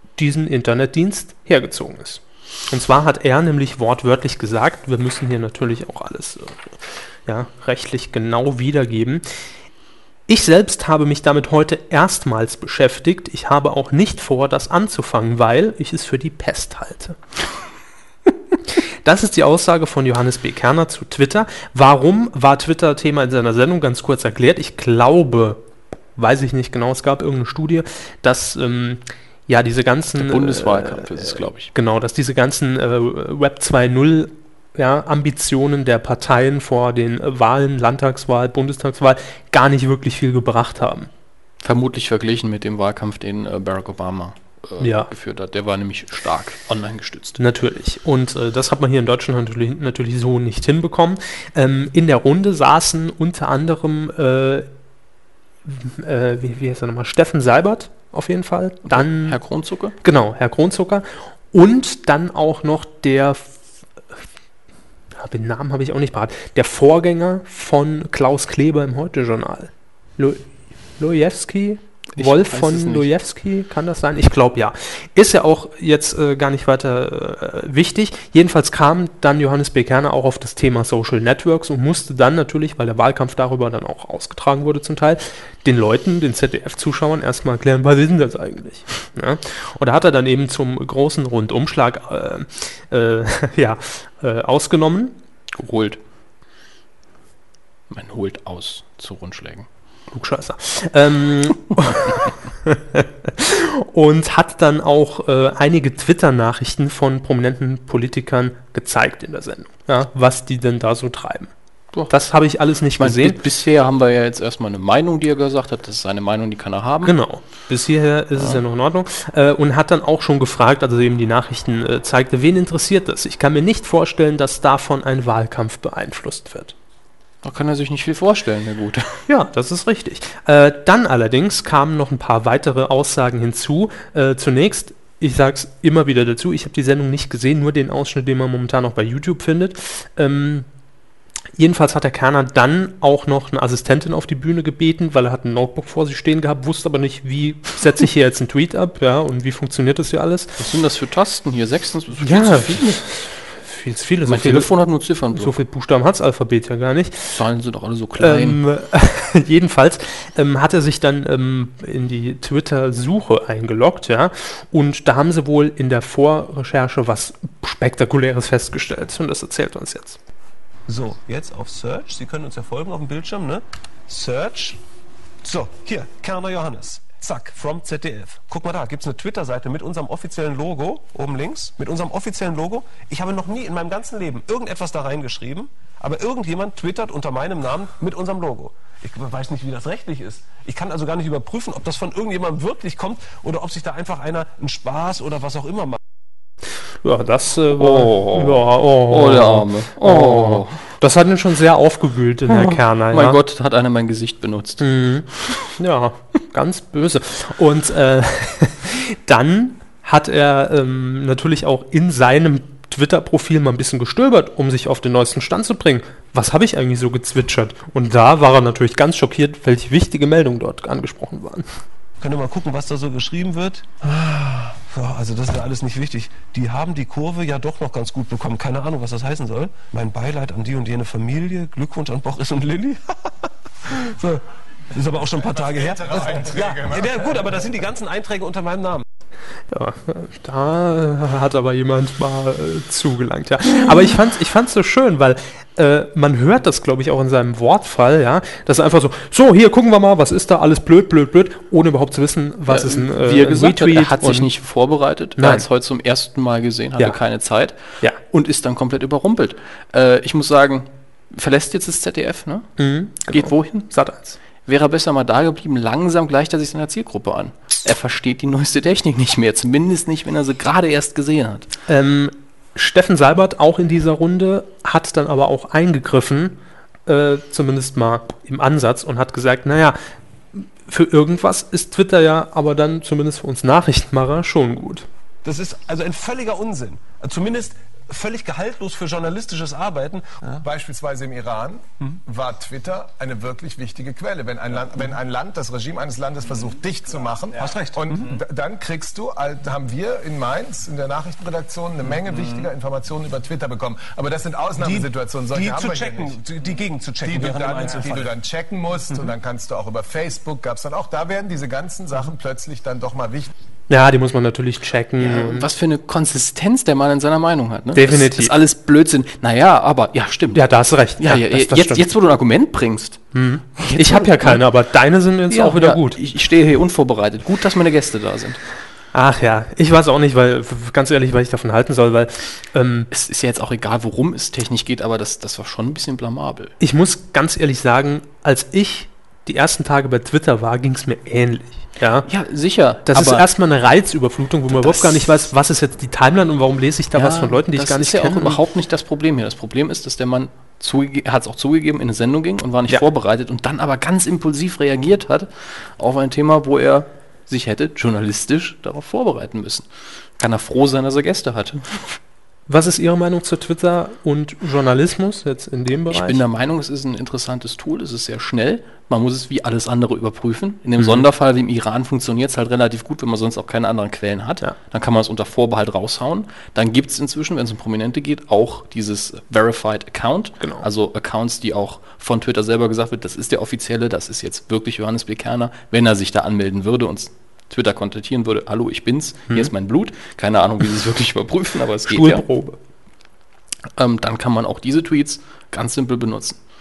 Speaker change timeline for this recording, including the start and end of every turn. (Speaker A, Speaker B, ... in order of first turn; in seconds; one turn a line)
Speaker A: 0.2-6.7
Speaker A: 7.2-9.2
Speaker A: 10.3-17.2
Speaker A: 19.0-25.6
Speaker A: 26.1-41.1
Speaker B: 30.1-31.7
Speaker B: 41.6-47.4
Speaker A: 44.8-45.1
Speaker A: 47.4-54.7
Speaker A: 55.6-59.4
Speaker B: 58.9-60.0
Speaker A: 60.0-63.5
Speaker A: 65.2-70.5
Speaker A: 71.0-95.1
Speaker B: 72.1-73.1
Speaker B: 95.5-96.0
Speaker B: 97.9-99.7
Speaker A: 100.1-111.5
Speaker A: 112.1-113.4
Speaker B: 113.0-117.1
Speaker A: 117.0-126.7
Speaker B: 118.3-118.6
Speaker B: 127.4-129.2
Speaker A: 129.3-140.7
Speaker A: 141.6-150.6
Speaker B: 150.6-153.0
Speaker A: 152.2-154.7
Speaker B: 154.2-155.6
Speaker A: 155.3-157.4
Speaker B: 157.3-158.6
Speaker A: 158.2-170.2
Speaker C: 170.9-174.8
Speaker C: 175.4-196.0
Speaker A: 197.0-203.4
Speaker B: 197.7-200.8
Speaker B: 202.5-204.8
Speaker A: 204.8-221.7
Speaker C: 222.2-239.0
Speaker D: 235.5-237.6
Speaker A: 239.7-254.5
Speaker B: 252.7-262.7
Speaker A: 255.4-255.6
Speaker A: 262.8-264.4
Speaker B: 263.3-263.9
Speaker B: 264.6-271.7
Speaker A: 271.9-280.0
Speaker A: 280.6-285.1
Speaker C: 285.4-290.6
Speaker D: 290.6-306.4
Speaker C: 297.6-298.4
Speaker C: 304.8-308.3
Speaker D: 307.2-313.5
Speaker A: 313.9-315.7
Speaker B: 315.2-323.2
Speaker A: 317.9-318.6
Speaker A: 320.5-322.1
Speaker A: 323.3-326.2
Speaker B: 323.8-324.6
Speaker B: 325.5-328.6
Speaker A: 329.1-333.1
Speaker B: 333.1-336.7
Speaker A: 336.8-342.3
Speaker B: 342.2-343.5
Speaker A: 343.1-348.6
Speaker B: 344.7-345.4
Speaker B: 347.1-362.2
Speaker A: 362.7-366.4
Speaker B: 366.1-392.4
Speaker A: 380.6-380.9
Speaker A: 392.1-392.8
Speaker B: 394.0-396.6